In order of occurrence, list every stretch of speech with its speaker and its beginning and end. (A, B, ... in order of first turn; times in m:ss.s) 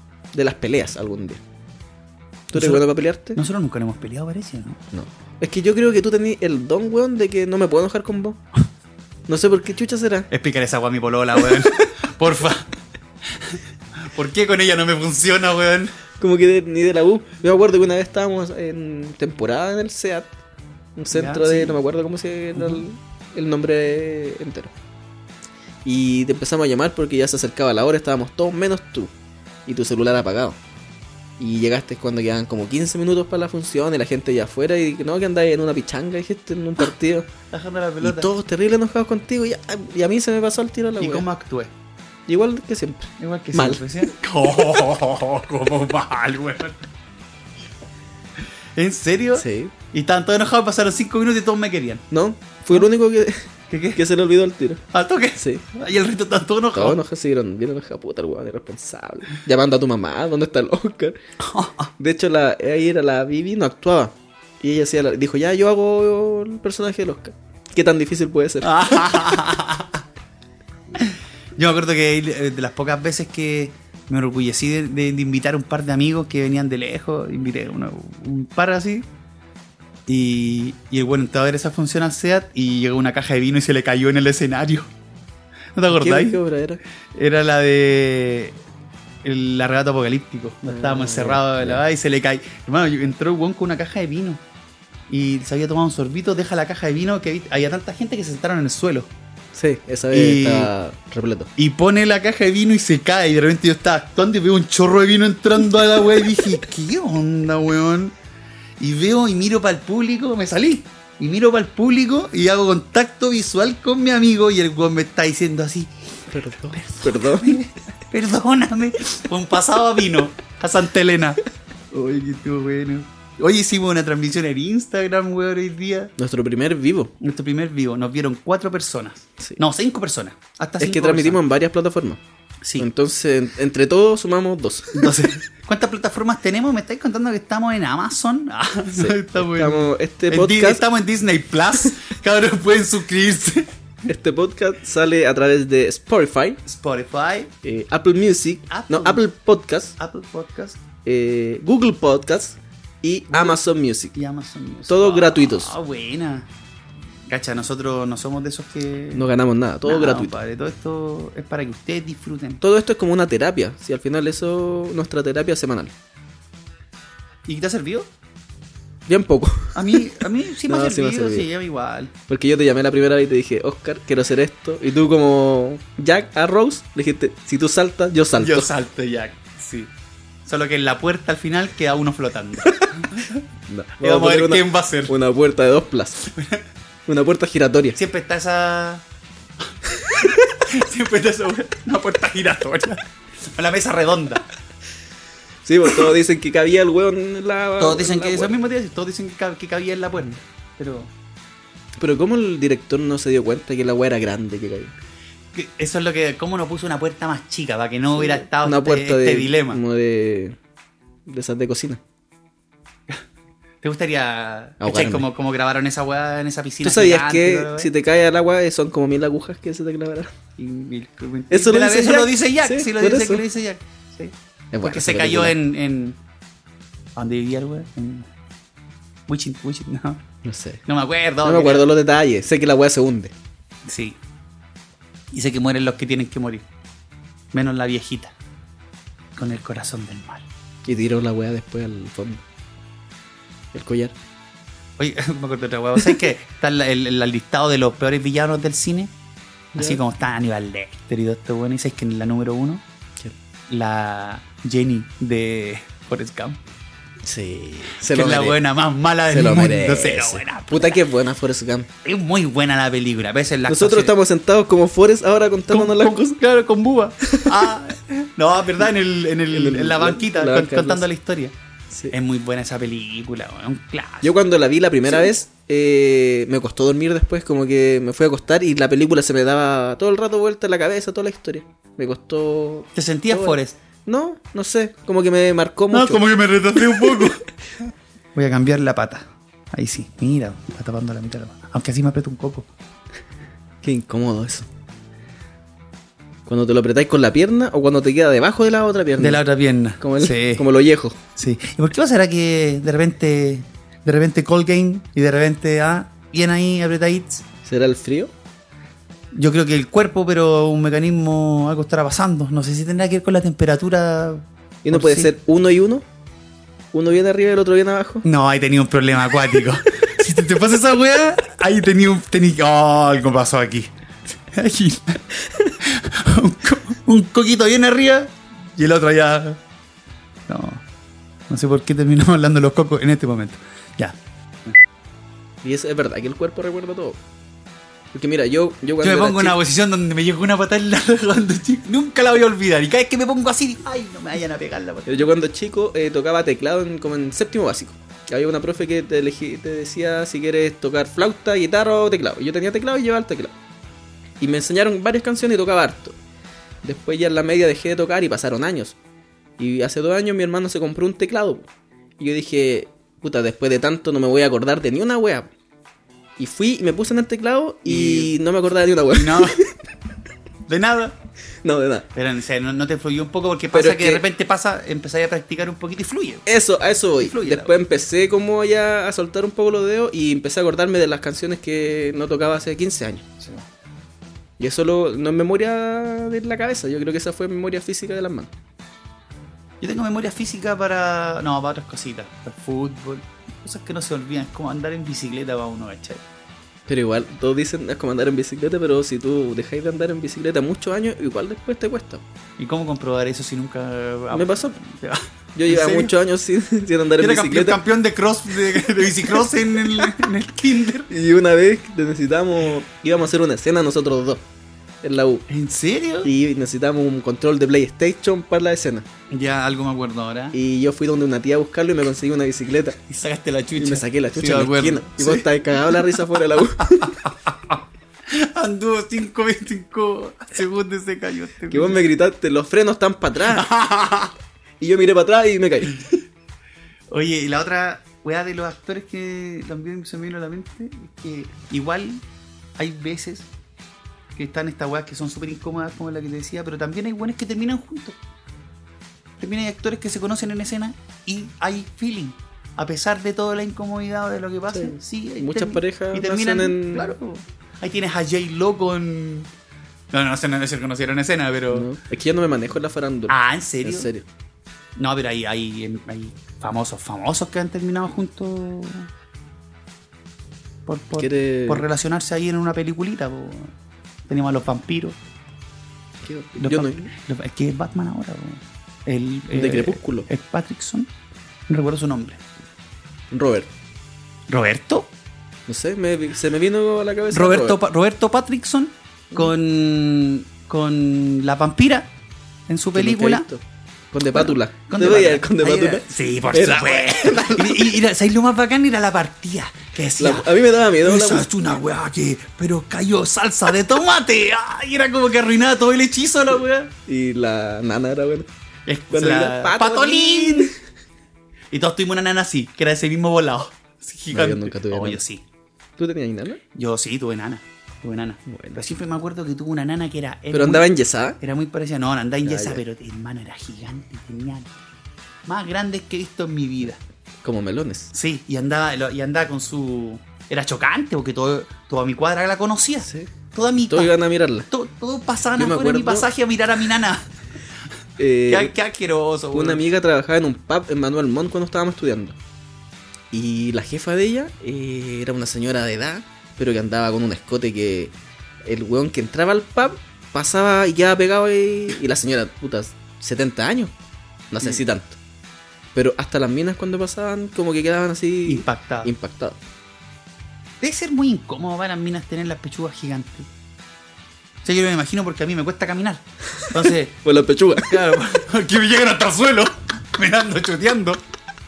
0:00.3-0:01.4 A
0:02.5-0:03.4 A
0:02.5-0:04.8 B
0:04.9-0:08.4 A
0:09.3-0:10.3 A
0:10.3-0:12.7 B
0:13.4-0:15.9 B
0:16.2-0:20.3 A
0:21.0-0:24.7 A
0:21.1-0:21.8 B
0:22.6-0:22.8 B
0:25.8-0:29.1 A
0:29.6-0:30.6 A
0:31.4-0:37.3 A
0:37.5-0:38.3 B
0:38.0-0:41.2 A
0:41.0-0:41.7 B
0:42.3-0:43.8 A
0:43.2-0:46.8 B
0:48.8-0:52.0 B
0:49.3-0:49.7 A
0:52.1-0:54.8 A
0:53.7-0:54.0 B
0:54.9-0:57.0 B
0:55.4-0:55.6 A
0:56.7-1:01.2 A
1:01.4-1:01.9 B
1:02.0-1:08.7 A
1:08.6-1:10.0 B
1:11.0-1:19.1 B
1:20.1-1:24.9 B
1:25.7-1:26.4 B
1:25.9-1:26.8 A
1:27.1-1:28.6 B
1:29.2-1:34.4 B
1:30.7-1:31.8 A
1:35.1-1:39.1 B
1:39.5-1:41.5 A
1:40.1-1:40.7 B
1:41.6-1:48.1 B
1:48.8-1:55.9 B
1:56.3-1:57.6 A
1:56.7-2:06.1 B
2:06.2-2:07.1 A
2:07.2-2:11.4 B
2:10.8-2:12.2 A
2:12.6-2:12.9 B
2:12.8-2:15.1 A
2:14.9-2:23.7 B
2:19.0-2:20.8 A
2:24.1-2:26.6 A
2:26.6-2:27.5 B
2:27.6-2:29.9 A
2:28.7-2:29.2 B
2:30.0-2:30.8 B
2:31.0-2:34.2 A
2:33.3-2:33.6 B
2:34.1-2:36.5 B
2:34.9-2:35.7 A
2:37.3-2:39.3 B
2:39.1-2:40.3 A
2:39.8-2:42.6 B
2:42.6-2:45.9 A
2:47.4-2:48.1 B
2:49.1-2:50.1 A
2:49.7-2:52.1 B
2:50.7-2:51.5 A
2:52.3-2:58.7 A
2:58.4-2:59.9 B
3:00.4-3:03.4 B
3:03.7-3:06.3 A
3:04.0-3:05.1 B
3:06.3-3:06.6 B
3:07.1-3:08.0 A
3:08.0-3:09.0 B
3:10.2-3:14.4 B
3:15.6-3:18.5 A
3:17.8-3:21.1 B
3:22.0-3:24.9 A
3:25.5-3:29.8 B
3:28.2-3:30.6 A
3:31.3-3:32.0 A
3:33.8-3:37.9 B
3:34.8-3:35.2 A
3:36.8-3:40.3 A
3:40.6-3:46.2 B
3:41.5-3:43.4 A
3:44.7-3:45.5 A
3:47.2-3:48.3 B
3:49.3-3:50.2 B
3:50.4-3:50.8 A
3:50.8-3:51.8 B
3:51.4-3:53.3 A
3:53.8-3:54.2 B
3:55.3-3:56.6 B
3:57.5-3:58.3 B
3:59.4-4:00.4 B
4:00.8-4:02.4 A
4:03.7-4:04.1 A
4:05.0-4:09.1 B
4:09.7-4:10.0 A
4:09.8-4:12.8 B
4:13.7-4:16.6 B
4:17.2-4:18.6 A
4:18.1-4:21.0 B
4:19.3-4:21.9 A
4:22.0-4:24.1 B
4:23.7-4:26.3 A
4:25.7-4:31.5 B
4:27.2-4:27.5 A
4:29.5-4:31.0 A
4:32.1-4:34.3 B
4:34.2-4:46.2 A
4:42.9-4:43.8 B
4:45.9-4:47.4 B
4:48.3-4:52.7 B
4:53.8-4:54.7 A
4:56.4-4:59.4 A
4:59.2-5:00.6 B
5:00.0-5:01.2 A
5:01.4-5:07.4 B
5:07.6-5:08.3 A
5:09.3-5:15.3 B
5:14.8-5:16.0 A
5:16.9-5:18.2 A
5:18.2-5:23.9 B
5:24.5-5:25.2 B
5:25.8-5:29.6 B
5:30.5-5:30.8 B
5:31.5-5:34.8 B
5:35.6-5:37.2 A
5:38.1-5:39.6 A
5:39.0-5:45.3 B
5:45.0-5:53.5 A
5:54.4-5:56.2 A
5:56.8-5:58.9 A
5:59.6-6:01.6 A
6:02.2-6:05.5 A
6:06.4-6:09.7 A
6:07.8-6:08.3 B
6:09.1-6:09.6 B
6:10.7-6:11.1 B
6:11.6-6:12.0 A
6:12.1-6:16.4 B
6:13.7-6:14.2 A
6:16.4-6:23.2 A
6:17.2-6:17.7 B
6:23.4-6:23.6 B
6:24.6-6:28.5 A
6:29.8-6:36.2 B
6:36.9-6:42.2 A
6:42.6-6:46.1 B
6:44.3-6:44.8 A
6:45.5-6:47.8 A
6:47.2-6:51.1 B
6:51.1-6:54.4 A
6:55.0-6:55.4 A
6:55.5-6:56.3 B
6:56.2-6:59.0 A
6:59.3-7:00.6 B
7:00.5-7:03.0 A
7:03.1-7:05.5 B
7:03.8-7:07.1 A
7:06.8-7:12.0 B
7:11.7-7:13.7 A
7:13.5-7:14.3 B
7:14.8-7:16.0 A
7:17.1-7:22.2 B
7:22.8-7:23.5 B
7:24.3-7:28.2 B
7:29.4-7:39.5 B
7:34.7-7:37.1 A
7:40.1-7:41.9 B
7:41.7-7:44.2 A
7:43.3-7:44.1 B
7:45.0-7:49.1 B
7:50.8-7:53.7 B
7:51.2-7:51.8 A
7:54.3-7:55.2 B
7:56.2-7:57.1 A
7:56.6-8:01.1 B
7:59.5-8:00.3 A
8:01.7-8:02.4 B
8:03.3-8:03.7 A
8:04.5-8:05.1 B
8:05.7-8:07.8 A
8:07.3-8:12.1 B
8:12.7-8:13.4 B
8:12.9-8:17.8 A
8:14.3-8:26.9 B
8:20.2-8:21.5 A
8:27.0-8:28.5 A
8:28.8-8:30.7 B
8:29.1-8:30.8 A
8:31.7-8:35.4 B
8:34.3-8:35.2 A
8:36.0-8:36.6 A
8:36.7-8:40.9 B
8:38.5-8:38.8 A
8:40.5-8:41.4 A
8:41.4-8:44.7 B
8:42.4-8:42.8 A
8:45.5-8:47.0 B
8:47.4-8:48.1 A
8:48.1-8:54.1 B
8:53.0-8:53.3 A
8:53.9-8:54.7 A
8:54.7-8:57.3 B
8:55.6-8:56.3 A
8:58.2-8:58.7 A
8:58.5-8:59.8 B
8:59.5-9:02.4 A
9:03.3-9:08.1 A
9:08.6-9:13.9 A
9:14.5-9:15.2 A
9:15.9-9:19.6 A
9:18.4-9:19.1 B
9:20.8-9:23.5 B
9:24.6-9:27.2 B
9:27.2-9:28.0 A
9:27.8-9:31.2 B